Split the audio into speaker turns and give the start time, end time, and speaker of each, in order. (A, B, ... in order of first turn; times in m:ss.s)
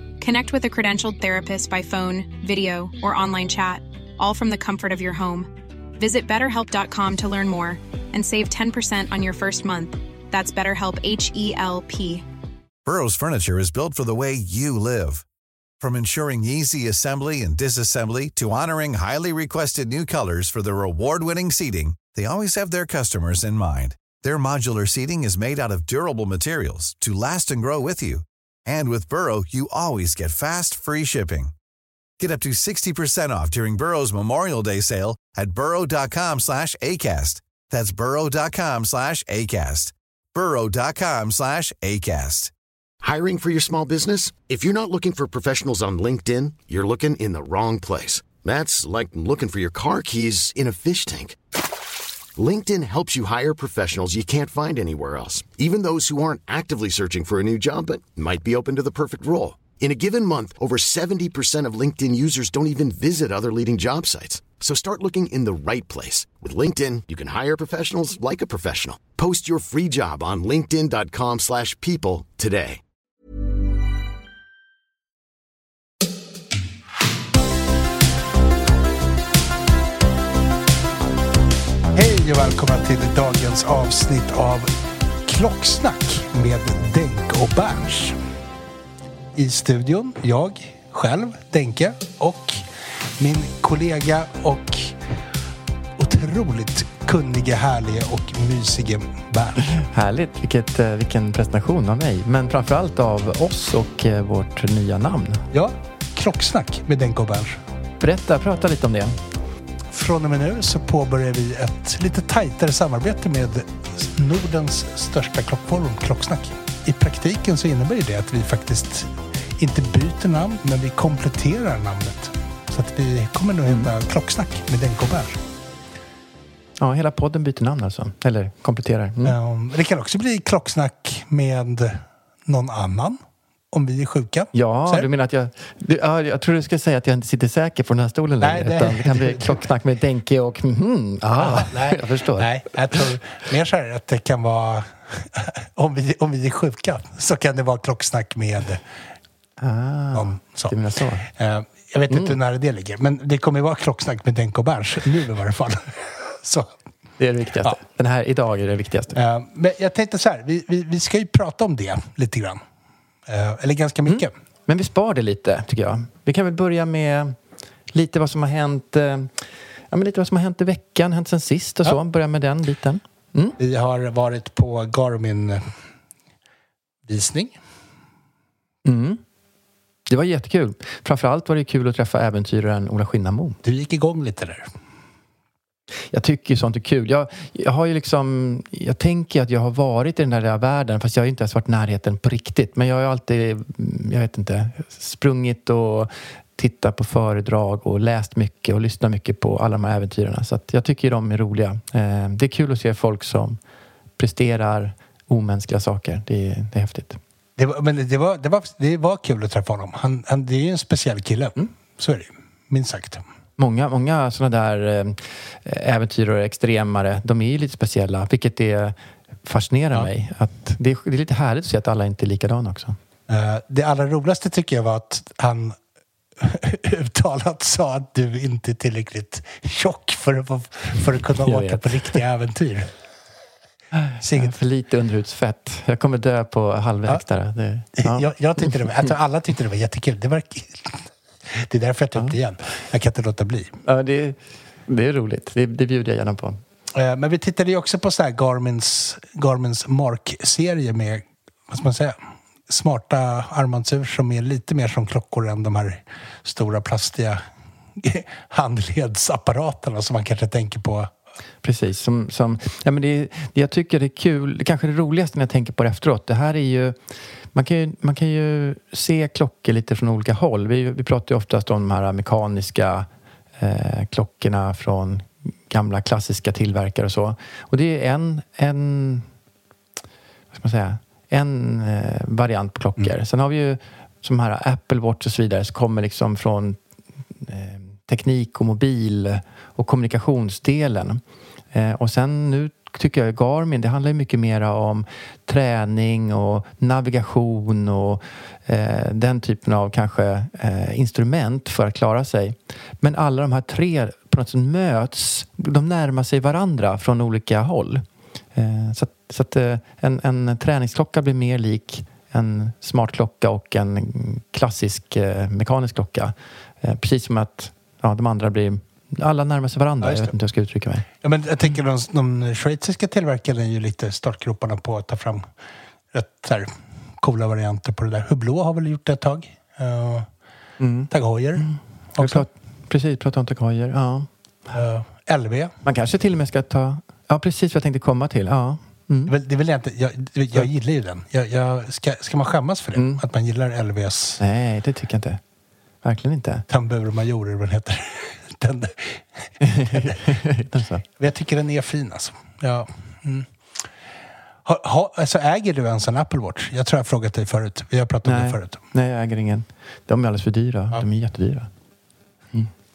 0:00.2-0:12.2 A
0:12.8-0:15.2 B
0:15.8-0:31.5 B
0:32.2-0:42.5 B
0:43.0-0:51.4 C
0:52.4-1:12.8 C
1:21.9-1:24.7 D
1:25.2-1:28.2 D
1:29.3-1:35.0 D
1:36.0-1:39.8 D
1:39.8-1:45.5 E
1:45.5-1:47.6 D
1:48.0-1:49.2 E
1:49.9-2:05.4 D
2:06.8-2:09.4 E
2:09.2-2:13.2 D
2:13.7-2:15.1 D
2:14.5-2:23.1 E
2:18.4-2:19.6 D
2:21.4-2:28.8 D
2:29.6-2:31.3 E
2:30.1-2:30.8 D
2:31.3-2:36.7 D
2:32.1-2:32.4 E
2:37.2-2:39.2 E
2:39.1-2:42.6 D
2:43.3-2:44.3 D
2:44.1-2:47.4 E
2:47.9-2:53.6 E
2:53.6-2:55.7 D
2:57.1-2:57.6 D
2:58.8-2:59.2 E
3:00.1-3:03.6 E
3:03.6-3:04.7 D
3:06.1-3:23.6 E
3:24.2-3:27.2 E
3:27.6-3:33.2 D
3:33.6-3:43.0 E
3:43.3-3:45.8 D
3:46.4-3:52.9 D
3:51.4-3:52.2 E
3:54.0-3:58.8 E
3:54.2-3:54.6 D
3:58.0-4:03.8 D
4:03.9-4:06.6 E
4:06.9-4:17.4 D
4:18.0-4:21.1 D
4:21.6-4:27.0 E
4:27.5-4:33.1 E
4:33.6-4:39.3 E
4:40.5-4:46.8 E
4:47.4-4:51.2 E
4:51.7-5:21.0 E
5:20.0-5:20.3 D
5:21.2-5:25.5 D
5:26.1-5:30.3 D
5:30.8-5:34.3 E
5:31.1-5:32.5 D
5:34.7-5:35.7 D
5:35.8-5:39.3 E
5:39.3-5:44.4 D
5:43.0-5:43.2 E
5:44.4-5:45.4 E
5:46.0-5:46.6 E
5:46.7-5:50.2 D
5:49.6-5:51.0 E
5:51.2-5:53.8 D
5:54.6-5:58.8 D
5:58.2-6:01.7 E